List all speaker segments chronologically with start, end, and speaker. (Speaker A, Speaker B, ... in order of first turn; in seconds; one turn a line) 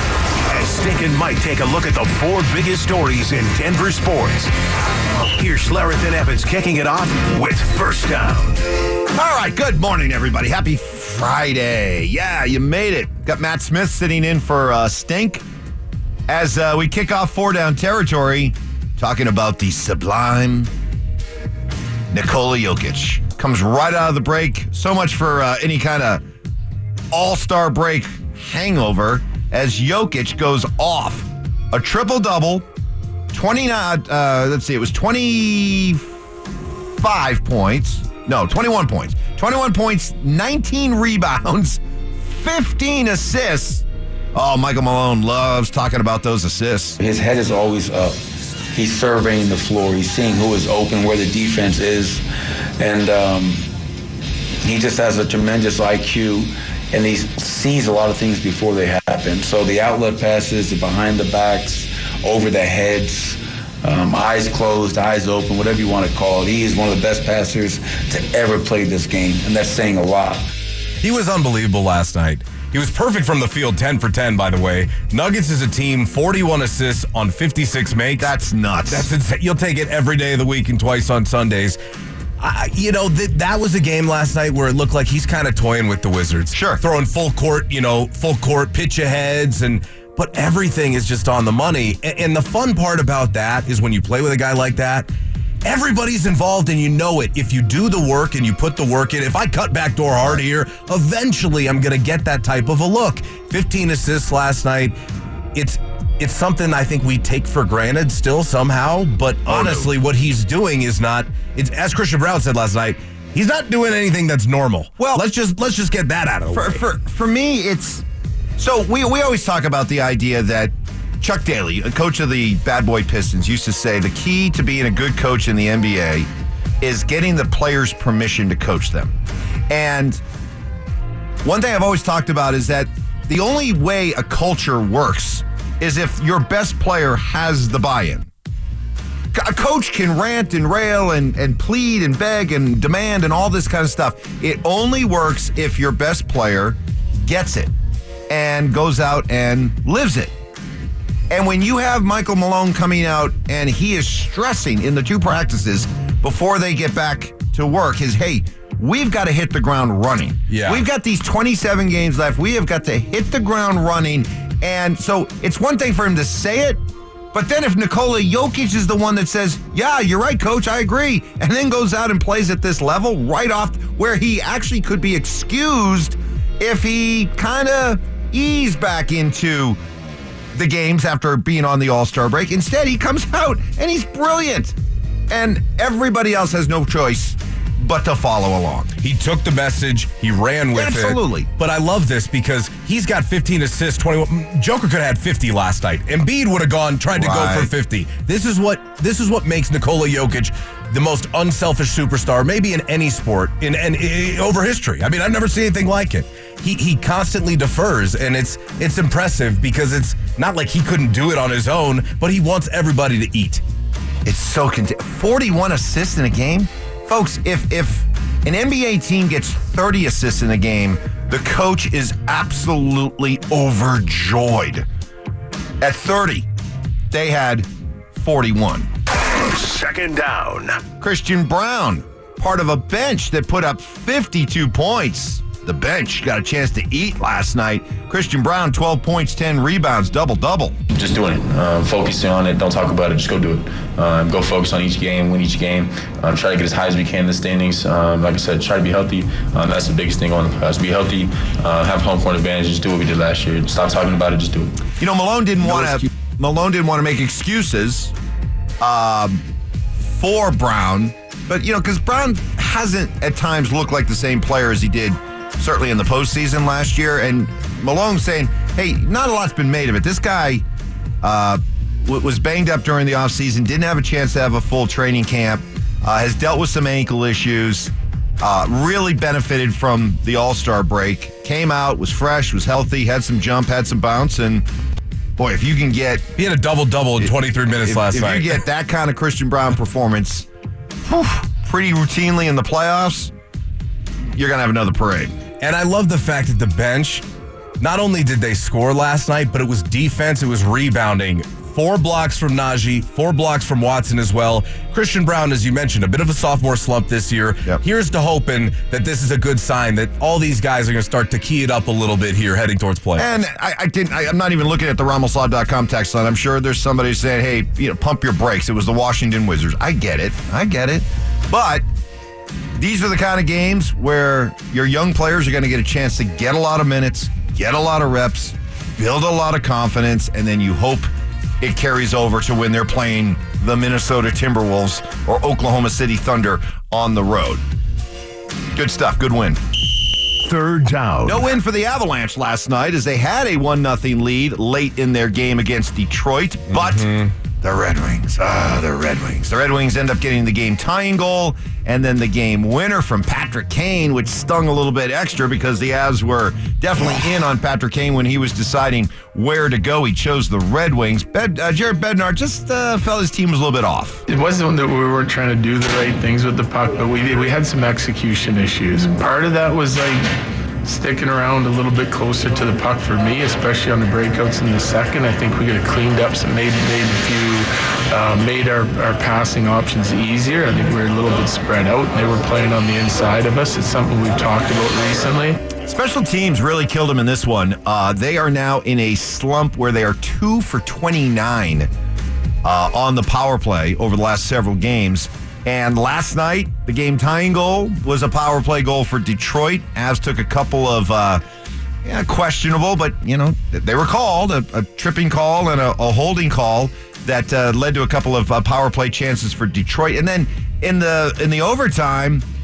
Speaker A: 0.5-4.5
Speaker A: 5.2-8.6
Speaker B: 9.1-15.4
Speaker B: 16.3-20.7
Speaker B: 22.1-26.2
Speaker B: 27.1-32.7
Speaker B: 33.3-36.1
Speaker B: 36.9-47.0
Speaker C: 47.0-48.2
Speaker C: 48.7-52.2
Speaker C: 52.8-53.7
Speaker C: 54.6-70.5
Speaker D: 71.0-78.3
Speaker B: 78.2-79.1
Speaker D: 78.9-81.8
Speaker D: 82.4-95.1
Speaker B: 86.5-86.8
Speaker D: 95.6-105.0
Speaker D: 105.5-116.8
Speaker B: 109.5-109.9
Speaker B: 115.0-115.2
Speaker B: 116.5-118.0
Speaker B: 118.6-126.3
Speaker B: 126.8-129.1
Speaker B: 129.7-130.2
Speaker B: 131.4-138.3
Speaker B: 139.3-147.7
Speaker B: 148.3-150.3
Speaker B: 151.3-166.8
Speaker D: 160.5-160.8
Speaker B: 167.3-179.8
Speaker B: 180.5-184.8
Speaker B: 185.3-188.9
Speaker D: 189.0-213.6
Speaker B: 190.7-191.5
Speaker B: 197.1-197.7
Speaker B: 214.2-224.8
Speaker B: 225.8-226.5
Speaker B: 227.1-228.9
Speaker A: 229.2-230.8
Speaker B: 231.0-240.8
Speaker E: 240.9-254.9
Speaker B: 254.9-258.1
Speaker E: 255.8-256.0
Speaker B: 258.8-259.4
Speaker B: 259.9-270.6
Speaker B: 271.2-284.7
Speaker B: 285.4-286.3
Speaker D: 286.4-288.6
Speaker B: 287.2-290.5
Speaker B: 291.0-293.3
Speaker B: 294.3-295.4
Speaker D: 295.6-297.2
Speaker D: 297.8-313.4
Speaker B: 313.2-321.9
Speaker B: 322.8-331.1
Speaker B: 331.6-337.6
Speaker B: 338.7-339.6
Speaker A: 340.4-341.4
Speaker B: 341.2-364.2
Speaker D: 346.7-347.3
Speaker F: 364.3-385.6
Speaker B: 385.8-391.9
Speaker B: 392.6-401.4
Speaker B: 402.0-412.4